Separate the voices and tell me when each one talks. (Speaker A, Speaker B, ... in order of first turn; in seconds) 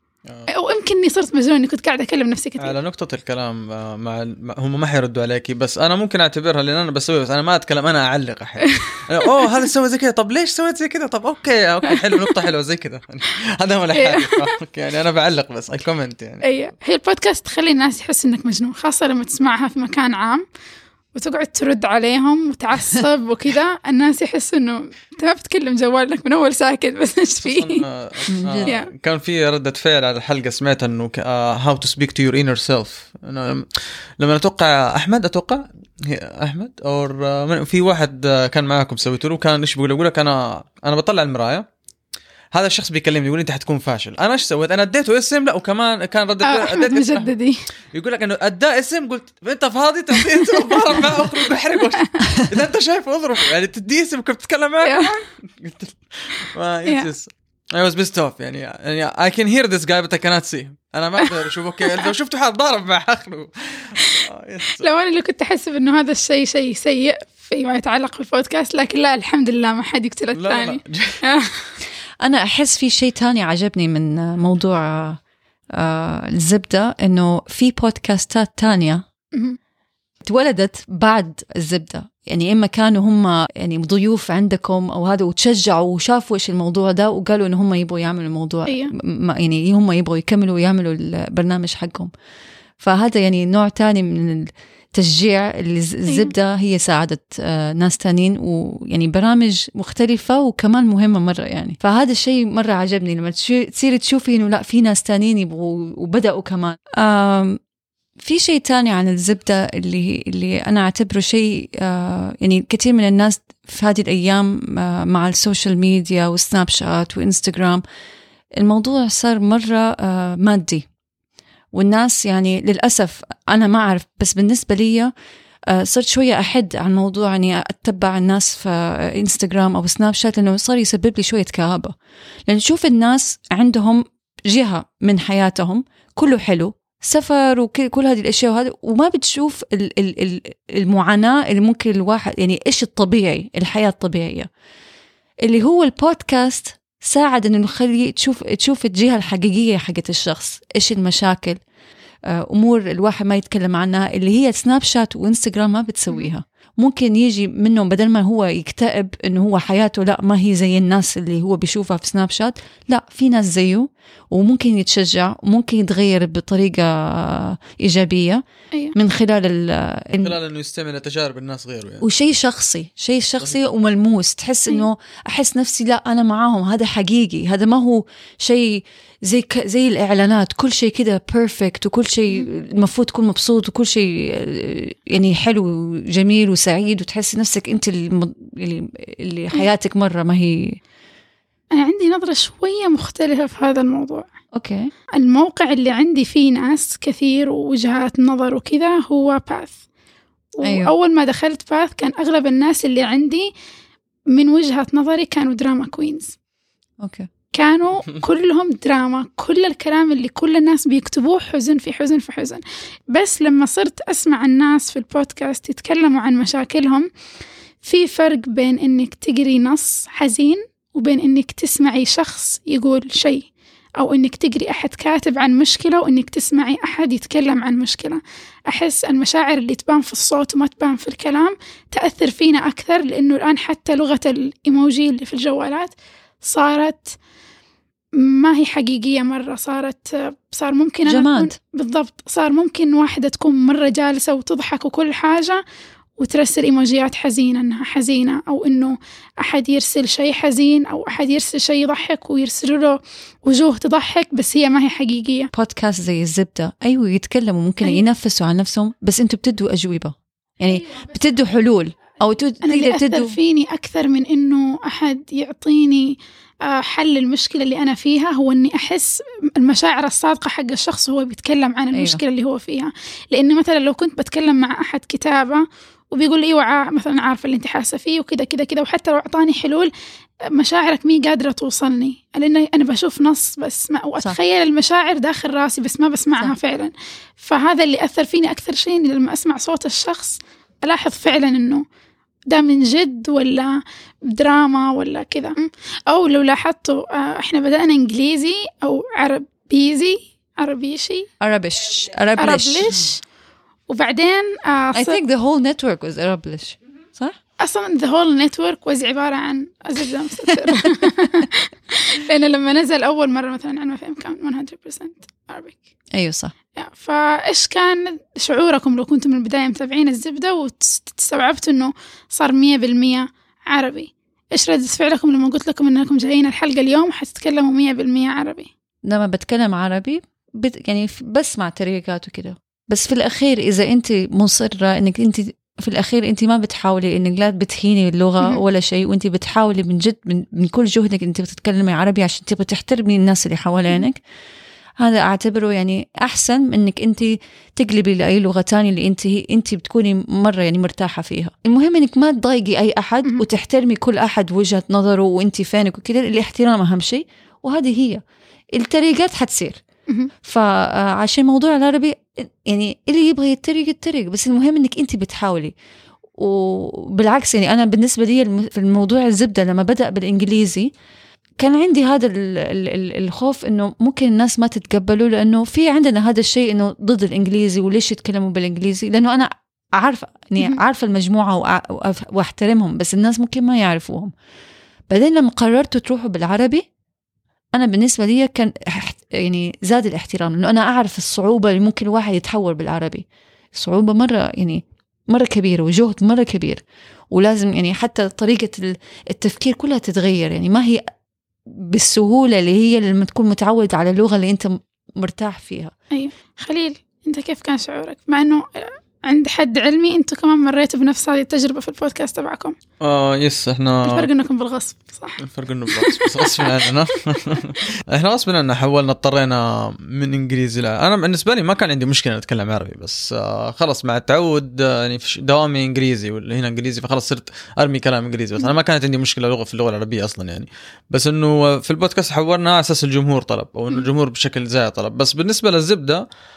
Speaker A: 0.5-2.8, 13.9-14.4, 16.4-20.4, 21.1-27.8, 28.6-28.9, 46.4-47.6, 50.7-51.3, 51.8-52.2, 54.8-55.2, 64.0-71.8, 88.7-88.9, 96.1-96.3, 191.7-194.3, 195.2-199.8, 200.6-203.5, 204.3-206.4, 207.5-217.1, 217.8-237.2, 238.2-245.6, 246.2-255.5, 262.6-279.9, 280.5-291.9, 292.5-301.3, 302.4-303.2, 303.9-305.2, 307.6-315.8, 316.8-328.7, 406.1-412.8, 414.1-416.9
Speaker B: 2.6-16.4, 27.4-41.6, 42.5-47.3, 47.9-64.9, 70.3-71.2, 170.2-172.1, 413.0-414.3, 415.4-436.2
Speaker C: 28.3-28.7, 72.2-75.2, 75.7-79.0, 80.2-92.1, 92.8-107.6, 108.2-117.8, 118.6-120.9, 121.7-125.1, 125.7-131.9, 132.5-144.5, 145.4-151.6, 152.3-168.4, 168.9-170.3, 172.0-190.8, 194.6-194.9, 200.6-200.9, 207.0-207.3, 241.1-241.6, 255.5-263.4, 271.9-272.2, 301.4-303.1, 304.9-307.4, 316.1-316.5, 329.1-344.2, 345.0-358.2, 358.7-359.8, 360.4-365.8, 366.4-370.9, 371.6-384.3, 385.1-386.9, 387.7-401.0, 401.7-405.9